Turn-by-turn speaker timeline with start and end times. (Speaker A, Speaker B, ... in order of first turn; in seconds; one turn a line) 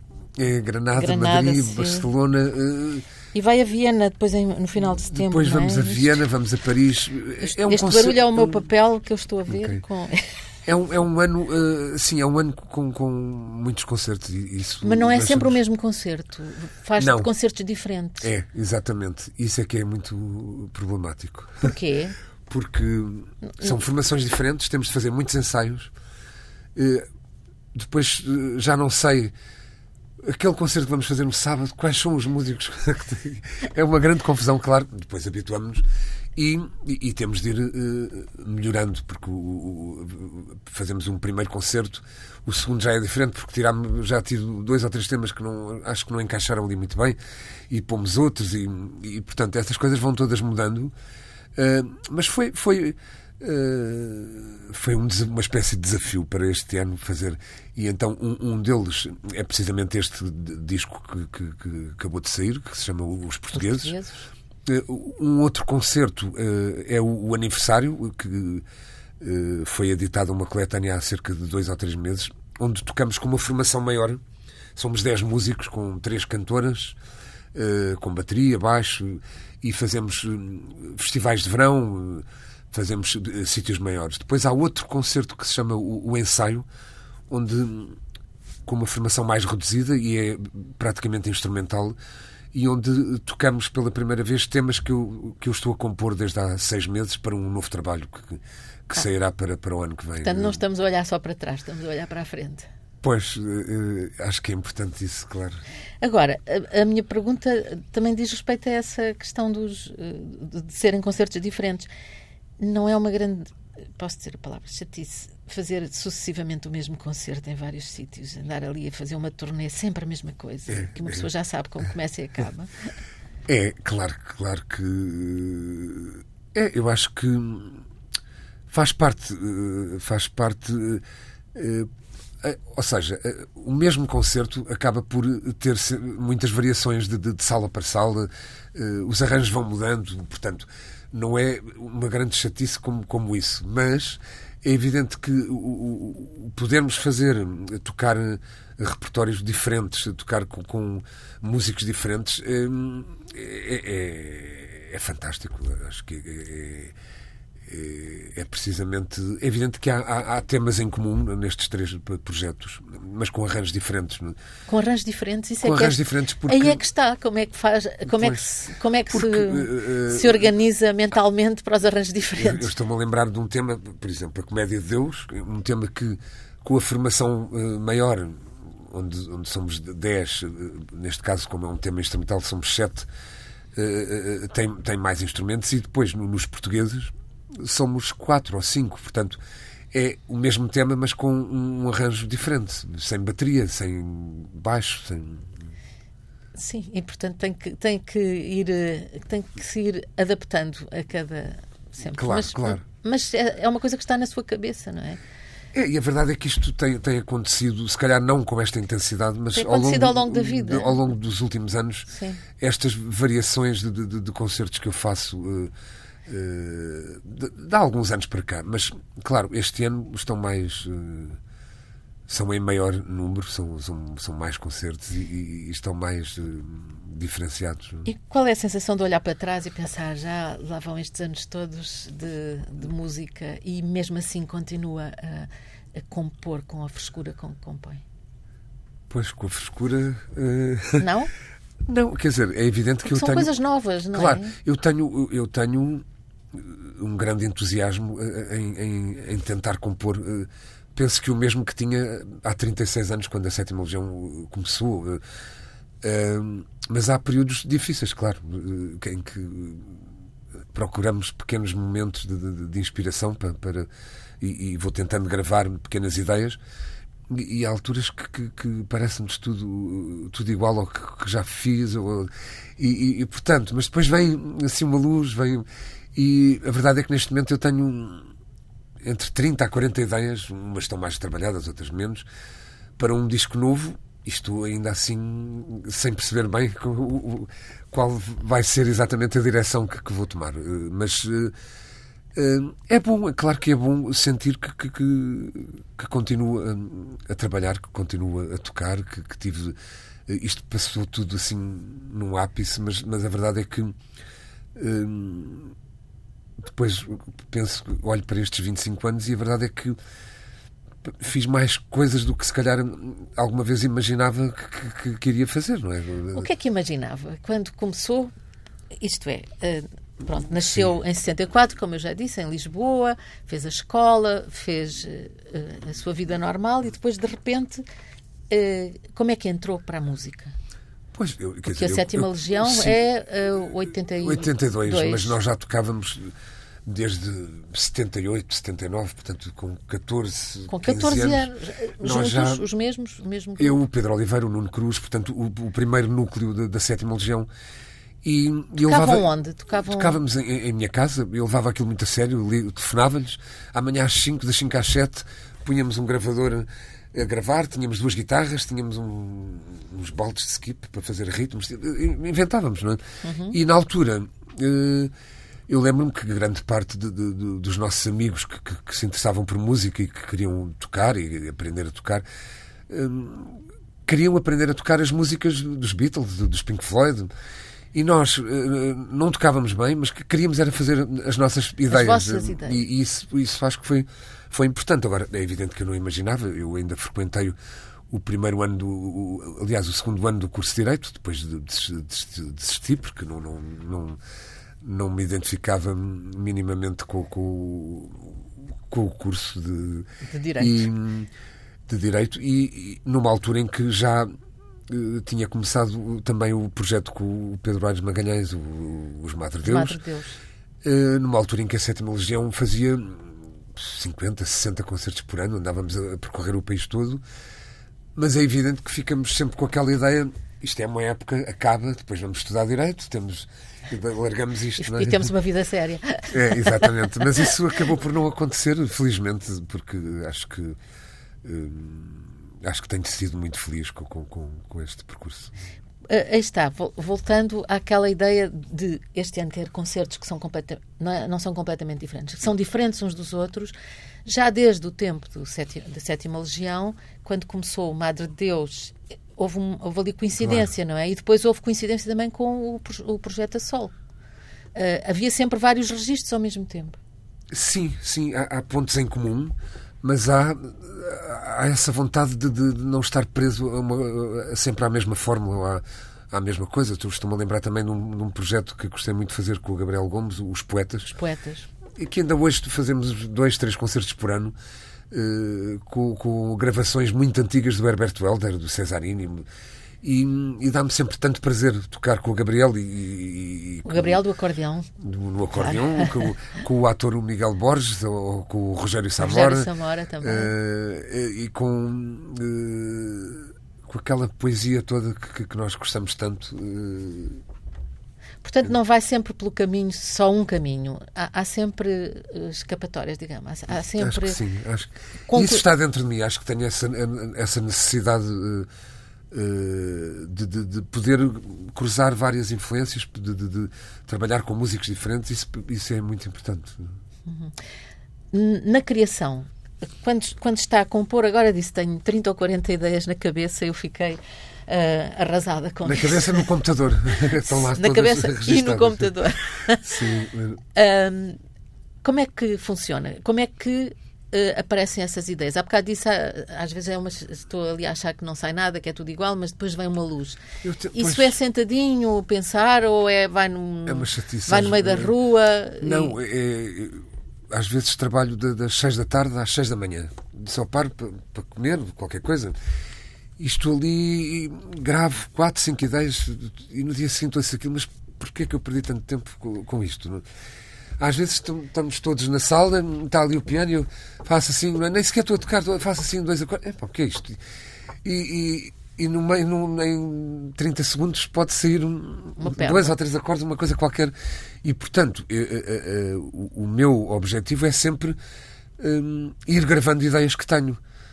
Speaker A: 0.4-3.0
Speaker B: 0.9-2.1
Speaker B: 3.3-6.2
Speaker A: 4.8-8.6
Speaker B: 7.4-10.2
Speaker A: 9.5-9.8
Speaker A: 10.6-15.6
Speaker B: 14.8-18.3
Speaker A: 17.0-17.3
Speaker A: 18.2-21.7
Speaker B: 21.6-22.2
Speaker A: 22.5-25.9
Speaker B: 23.5-23.8
Speaker A: 26.7-27.1
Speaker A: 27.7-29.3
Speaker A: 30.2-47.2
Speaker A: 47.7-50.9
Speaker A: 51.5-63.9
Speaker B: 63.5-64.2
Speaker A: 64.7-68.7
Speaker A: 69.2-74.2
Speaker A: 74.7-77.0
Speaker A: 77.5-86.7
Speaker A: 87.3-88.0
Speaker A: 88.6-92.0
Speaker A: 92.5-100.6
Speaker B: 100.2-102.7
Speaker A: 103.0-105.6
Speaker B: 106.0-111.9
Speaker B: 112.6-122.7
Speaker A: 120.7-121.3
Speaker A: 123.5-127.8
Speaker A: 128.7-131.0
Speaker A: 131.5-131.9
Speaker A: 132.4-156.9
Speaker A: 157.7-164.4
Speaker B: 164.7-172.7
Speaker A: 165.6-166.8
Speaker A: 168.1-168.4
Speaker A: 169.1-170.5
Speaker A: 172.4-183.1
Speaker A: 183.7-189.4
Speaker A: 189.9-195.6
Speaker B: 196.5-205.2
Speaker A: 202.1-202.8
Speaker A: 205.7-215.7
Speaker B: 209.5-211.0
Speaker B: 212.1-212.4
Speaker A: 216.2-221.4
Speaker A: 222.3-228.1
Speaker B: 228.0-238.0
Speaker A: 239.1-241.1
Speaker B: 241.0-241.3
Speaker A: 241.8-243.5
Speaker B: 243.0-244.6
Speaker A: 244.1-255.2
Speaker A: 256.0-260.0
Speaker A: 260.7-263.9
Speaker A: 264.4-266.6
Speaker A: 267.3-278.3
Speaker A: 279.0-282.2
Speaker A: 283.0-291.5
Speaker A: 292.3-299.8
Speaker A: 300.3-304.0
Speaker A: 304.7-305.7
Speaker A: 306.6-309.9
Speaker A: 311.0-316.5
Speaker B: 316.3-318.3
Speaker B: 319.0-327.8
Speaker B: 328.5-330.5
Speaker A: 331.1-333.0
Speaker B: 331.7-335.4
Speaker A: 334.2-336.3
Speaker A: 336.8-342.7
Speaker B: 340.7-343.8
Speaker A: 343.6-347.5
Speaker A: 348.2-365.1
Speaker B: 348.8-350.2
Speaker B: 363.2-363.6
Speaker A: 365.7-372.2
Speaker A: 372.9-377.3
Speaker A: 377.9-387.5
Speaker B: 381.9-382.8
Speaker A: 388.1-394.2
Speaker A: 394.8-400.1
Speaker B: 400.2-400.9
Speaker A: 400.6-401.3
Speaker A: 401.9-404.3
Speaker A: 404.9-410.0
Speaker B: 409.6-410.4
Speaker A: 410.8-417.2
Speaker A: 418.1-425.3
Speaker B: 424.8-427.6
Speaker A: 426.3-430.8
Speaker A: 431.4-435.5
Speaker B: 436.1-443.7
Speaker B: 444.2-453.9
Speaker A: 450.4-450.7
Speaker B: 454.7-457.0
Speaker A: 457.5-471.1
Speaker B: 471.1-471.7
Speaker A: 471.9-474.5
Speaker A: 475.1-479.4
Speaker A: 480.0-484.2
Speaker B: 483.8-484.9
Speaker A: 485.0-489.7
Speaker B: 485.5-486.2
Speaker B: 489.2-490.5
Speaker A: 490.2-497.4
Speaker B: 498.4-504.4
Speaker A: 504.0-508.7
Speaker B: 505.3-505.6
Speaker A: 509.3-517.0
Speaker B: 517.3-517.5
Speaker B: 518.3-526.5
Speaker A: 525.8-530.6
Speaker B: 527.1-530.0
Speaker B: 530.7-531.4
Speaker B: 532.0-540.4
Speaker A: 540.6-541.4
Speaker B: 540.9-546.1
Speaker A: 543.9-545.1
Speaker A: 545.8-552.5
Speaker A: 553.4-560.2
Speaker A: 561.0-567.4
Speaker A: 568.0-578.2
Speaker B: 572.4-572.9
Speaker A: 578.8-580.8